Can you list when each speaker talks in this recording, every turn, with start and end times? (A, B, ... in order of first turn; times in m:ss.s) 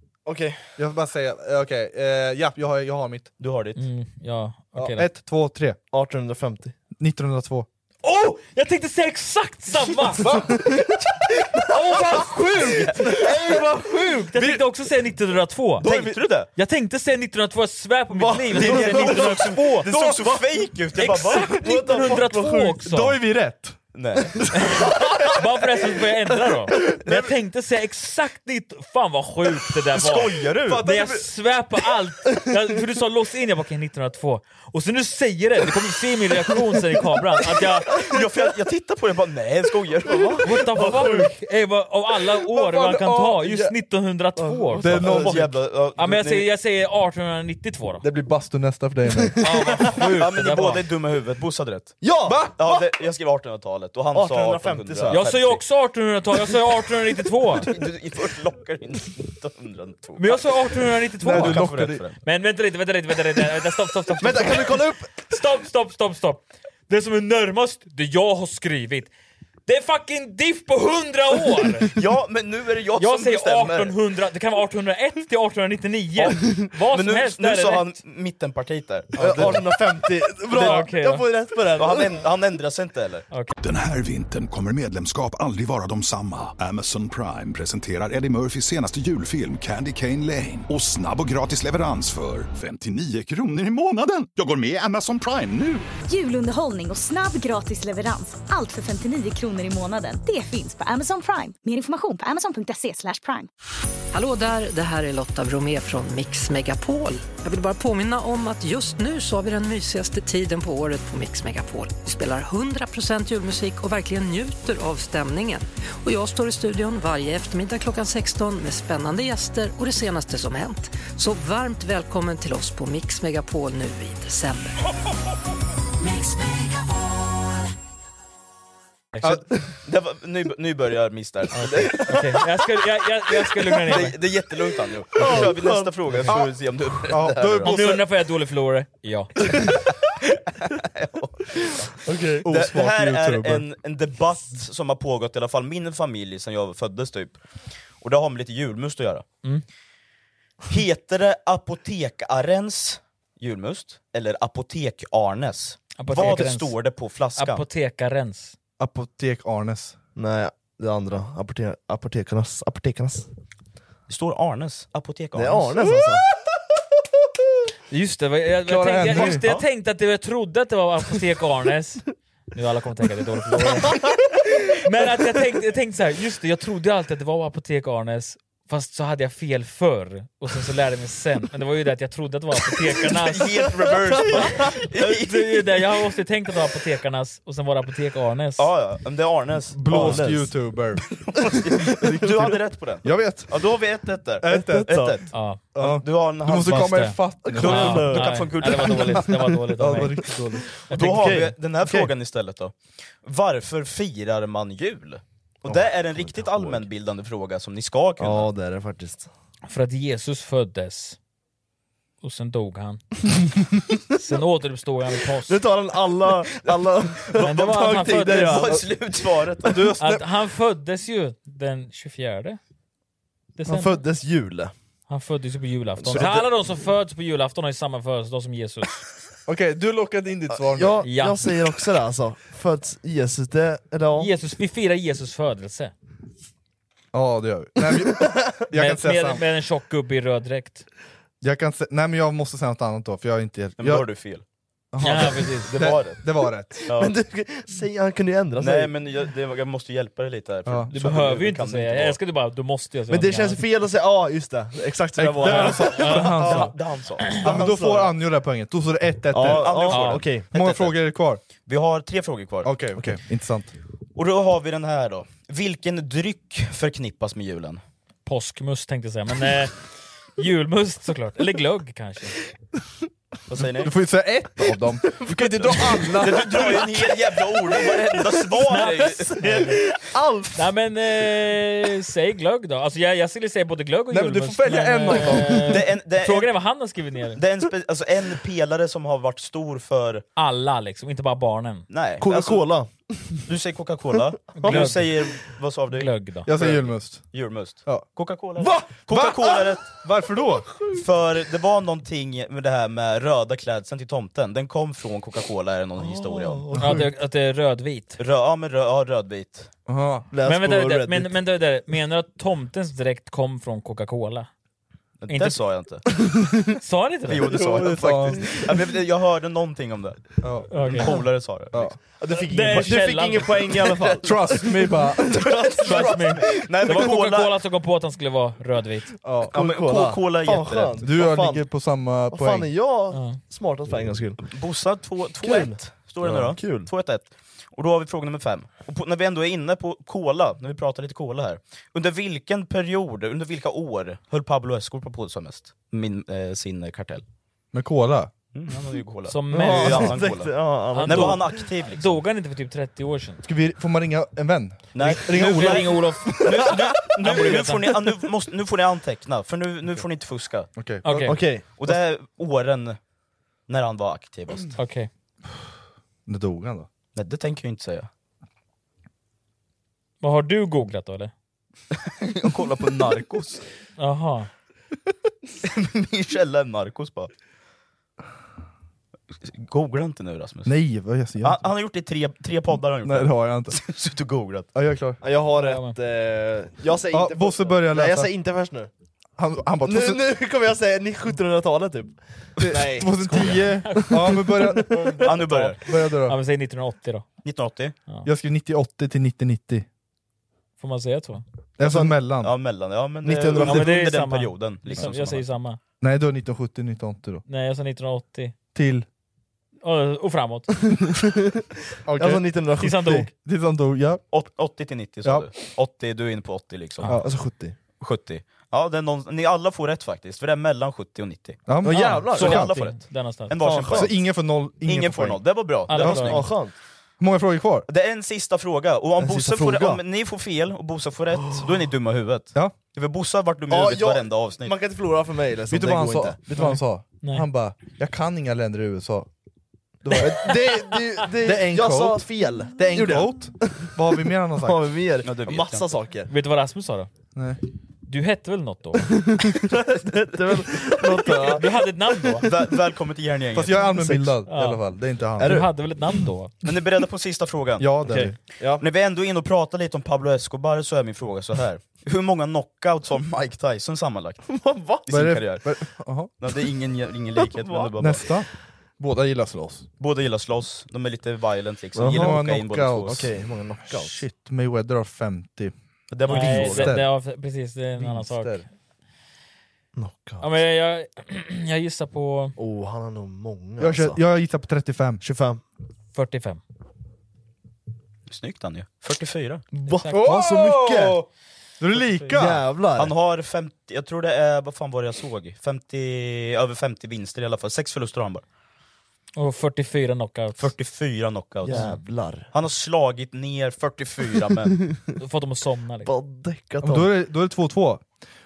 0:00.2-0:00.7 A
0:00.8-0:03.3 B
0:03.4-0:03.8 C
0:03.8-0:05.1 D
0:04.8-0:05.8 B
0:05.9-0:06.8 A
0:07.0-0:07.6 B
0:08.0-0:10.3 D
0:10.2-0:10.8 B
0:10.2-0:11.0 A
0:11.6-0:15.9 D
0:12.7-0:13.0 C
0:13.0-0:13.6 A
0:14.3-0:14.6 B
0:15.8-0:16.5 C
0:15.9-0:16.2 B
0:16.6-0:19.9 D
0:18.1-0:20.1 A
0:18.5-0:21.6 C
0:19.9-0:20.2 B
0:20.9-0:23.2 D
0:21.4-0:22.8 A
0:22.8-0:23.8 B
0:23.9-0:24.4 C
0:24.5-0:38.0 D
0:30.0-0:30.8 C
0:30.4-0:30.9 A
0:37.9-0:40.4 C
0:40.0-0:41.3 A
0:40.4-0:48.0 D
0:42.4-0:43.7 B
0:44.4-0:45.4 A
0:44.8-0:45.4 B
0:44.9-0:46.5 C
0:48.0-0:49.4 B
0:49.1-0:49.9 A
0:49.4-0:50.8 D
0:50.1-0:55.4 C
0:52.0-0:52.5 A
0:52.3-0:52.8 B
0:54.1-0:55.6 A
0:55.1-0:57.7 D
0:57.7-1:00.4 C
1:00.2-1:09.1 D
1:01.2-1:02.0 B
1:01.2-1:02.2 C
1:04.2-1:05.1 A
1:09.6-1:11.9 D
1:11.9-1:14.0 C
1:13.0-1:17.9 D
1:16.9-1:19.8 C
1:19.2-1:22.3 A
1:20.5-1:20.8 C
1:20.6-1:21.3 D
1:21.8-1:23.3 C
1:23.6-1:35.9 E
1:36.1-1:43.5 F
1:44.1-2:04.8 G
2:09.1-2:09.4 D
2:09.8-2:12.2 C
2:11.5-2:14.2 D
2:13.6-2:18.0 C
2:15.2-2:16.2 A
2:16.3-2:18.0 B
2:17.6-2:19.5 D
2:20.8-2:21.9 C
2:22.0-2:23.6 B
2:22.1-2:22.4 A
2:22.5-2:27.4 C
2:28.0-2:29.3 C
2:30.7-2:37.6 C
2:36.0-2:36.7 D
2:37.4-2:38.6 D
2:38.8-2:40.0 B
2:40.2-2:43.3 A
2:44.1-2:45.9 C
2:45.3-2:46.3 A
2:47.9-2:54.1 D
2:48.6-2:49.4 B
2:49.1-2:49.6 C
2:53.8-2:54.2 A
2:54.7-3:03.5 D
3:03.1-3:05.9 C
3:03.8-3:04.7 A
3:05.0-3:08.6 D
3:08.6-3:10.3 C
3:09.7-3:11.2 B
3:09.9-3:10.5 A
3:11.2-3:12.4 A
3:11.6-3:19.2 C
3:12.0-3:13.6 B
3:14.4-3:15.0 B
3:14.4-3:15.2 A
3:15.3-3:15.6 D
3:15.7-3:18.2 B
3:16.7-3:20.3 D
3:17.4-3:19.6 A
3:19.8-3:20.6 B
3:20.9-3:21.4 D
3:20.9-3:28.5 C
3:20.9-3:22.1 A
3:25.6-3:26.9 A
3:28.2-3:29.3 A
3:29.6-3:31.2 D
3:32.2-3:33.0 D
3:34.2-3:35.6 D
3:35.4-3:38.9 A
3:37.2-3:39.9 C
3:37.4-3:38.6 D
3:39.6-3:40.3 B
3:40.0-3:42.6 D
3:43.6-3:44.0 D
3:43.6-3:44.7 A
3:45.1-3:49.0 D
3:46.0-3:46.5 A
3:49.4-3:51.0 B
3:50.6-3:54.3 A
3:51.0-3:51.4 D
3:54.2-3:55.9 D
3:57.1-3:59.4 B
3:58.0-3:58.6 A
3:58.7-4:00.9 D
4:01.4-4:04.0 B
4:03.8-4:04.4 C
4:04.9-4:06.8 B
4:05.0-4:05.7 D
4:05.7-4:06.2 C
4:06.9-4:07.1 C
4:06.9-4:08.9 A
4:08.6-4:12.2 C
4:10.6-4:10.9 B
4:10.9-4:13.6 D
4:13.1-4:16.7 A
4:15.2-4:16.7 B
4:15.4-4:16.6 D
4:15.6-4:17.4 C
4:17.3-4:18.1 A
4:17.4-4:19.9 B
4:19.3-4:20.5 A
4:19.3-4:21.0 C
4:19.9-4:20.2 D
4:20.5-4:21.4 B
4:21.6-4:22.7 C
4:22.6-4:23.7 B
4:24.2-4:27.8 C
4:28.3-4:29.7 D
4:30.4-4:32.4 D
4:33.5-4:33.9 C
4:33.8-4:36.9 B
4:35.2-4:36.2 A
4:36.2-4:39.4 C
4:38.6-4:39.8 D
4:38.8-4:40.6 A
4:40.5-4:47.4 D
4:44.1-4:45.7 B
4:45.6-4:46.6 C
4:47.4-4:50.2 C
4:50.4-4:51.9 D
4:51.9-4:52.6 C
4:52.2-4:53.4 A
4:53.4-4:59.9 C
4:54.6-4:55.2 D
4:54.6-4:54.9 A
4:55.9-4:56.5 D
4:56.4-4:57.3 B
4:58.6-5:00.7 B
5:00.9-5:06.7 C
5:06.0-5:07.1 A
5:06.8-5:08.2 D
5:08.2-5:09.7 C
5:09.9-5:10.3 B
5:10.3-5:11.3 A
5:10.4-5:14.5 D
5:15.2-5:16.0 C
5:15.3-5:15.6 D
5:16.1-5:16.6 A
5:16.8-5:17.4 D
5:17.3-5:21.9 C
5:17.6-5:18.5 B
5:17.8-5:18.6 A
5:20.4-5:20.9 B
5:20.7-5:21.2 D
5:21.7-5:22.0 B
5:22.0-5:26.4 A
5:22.5-5:23.6 D
5:24.2-5:25.7 B
5:25.8-5:27.5 C
5:25.8-5:29.1 D
5:29.2-5:29.6 B
5:29.5-5:31.0 C
5:29.5-5:31.7 A
5:31.0-5:32.7 B
5:32.3-5:34.5 A
5:33.1-5:33.4 D
5:34.4-5:47.2 C
5:35.4-5:36.9 A
5:47.7-5:48.3 B
5:48.5-5:52.2 C
5:49.3-5:50.2 D
5:49.5-5:51.6 A
5:50.9-5:53.4 D
5:53.4-5:56.7 B
5:54.9-6:00.7 C
5:55.3-5:57.9 D
6:00.8-6:01.4 B
6:01.0-6:01.4 D
6:01.1-6:01.9 A
6:01.8-6:03.0 C
6:03.7-6:04.8 C
6:04.8-6:05.1 D
6:06.3-6:06.9 B
6:07.1-6:08.1 C
6:10.2-6:11.3 D
6:12.0-6:13.6 C
6:14.0-6:14.5 D
6:15.6-6:17.3 C
6:19.4-6:20.7 C
6:20.6-6:21.6 B
6:21.4-6:24.7 C
6:23.0-6:23.8 B
6:24.7-6:25.2 B
6:25.2-6:28.9 A
6:25.6-6:26.0 D
6:27.1-6:28.3 B
6:29.4-6:30.2 B
6:29.8-6:35.3 A
6:32.6-6:35.1 B
6:33.4-6:34.1 D
6:34.9-6:37.3 D
6:35.2-6:35.8 C
6:35.8-6:36.4 B
6:37.4-6:38.0 C
6:38.2-6:39.9 B
6:40.8-6:41.4 D
6:41.8-6:42.5 B
6:41.8-6:42.1 A
6:42.3-6:45.5 C
6:43.2-6:44.0 A
6:43.6-6:45.8 D
6:46.0-6:47.4 B
6:47.5-6:48.5 D
6:48.7-6:49.0 B
6:49.8-6:50.7 D
6:50.9-6:51.6 A
6:52.0-6:52.4 B
6:52.2-6:53.3 A
6:52.8-6:53.3 D
6:53.3-6:54.2 B
6:54.3-6:57.2 C
6:57.1-6:57.8 A
6:58.0-7:01.7 C
7:01.7-7:02.7 B
7:01.8-7:02.6 A
7:01.8-7:03.6 D
7:02.4-7:04.2 C
7:03.6-7:04.1 A
7:03.9-7:05.4 B
7:04.8-7:06.5 C
7:05.9-7:06.4 D
7:05.9-7:06.7 A
7:07.2-7:07.9 B
7:07.9-7:14.7 C
7:09.2-7:10.0 A
7:13.7-7:16.4 A
7:15.7-7:19.3 B
7:16.6-7:17.4 D
7:20.0-7:20.7 B
7:20.1-7:21.0 D
7:20.1-7:23.9 A
7:21.4-7:24.8 B
7:24.6-7:26.3 A
7:25.2-7:25.9 C
7:26.3-7:27.1 D
7:28.0-7:29.2 D
7:29.1-7:32.6 A
7:31.3-7:32.5 D
7:32.4-7:33.9 C
7:33.5-7:35.6 B
7:33.9-7:34.4 A
7:34.4-7:34.8 D
7:35.4-7:36.5 D
7:35.4-7:35.7 A
7:36.6-7:37.9 C
7:37.8-7:38.3 B
7:38.0-7:38.8 A
7:38.8-7:44.4 C
7:44.4-7:45.0 A
7:45.0-7:45.6 C
7:45.1-7:46.3 B
7:46.4-7:48.3 C
7:47.6-7:47.9 A
7:48.0-7:49.9 B
7:50.0-7:53.2 C
7:51.9-7:52.5 A
7:52.1-7:55.7 B
7:53.0-7:54.2 A
7:56.1-7:56.9 C
7:56.3-7:58.6 D
7:56.3-7:57.1 B
7:56.3-7:56.7 A
7:58.0-7:58.6 B
8:00.0-8:00.5 A
8:00.4-8:02.6 D
8:02.6-8:04.2 A
8:03.8-8:05.2 B
8:05.2-8:05.6 A
8:06.1-8:06.6 D
8:08.3-8:09.6 C
8:09.7-8:11.2 A
8:09.8-8:10.3 D
8:10.1-8:11.3 B
8:11.8-8:12.6 B
8:12.0-8:12.4 C
8:12.3-8:13.1 A
8:13.0-8:18.4 C
8:19.4-8:20.7 D
8:20.6-8:22.0 C
8:21.6-8:22.5 A
8:21.7-8:22.0 D
8:22.5-8:24.8 C
8:24.7-8:25.1 A
8:25.2-8:26.1 D
8:26.0-8:27.1 A
8:26.8-8:28.0 B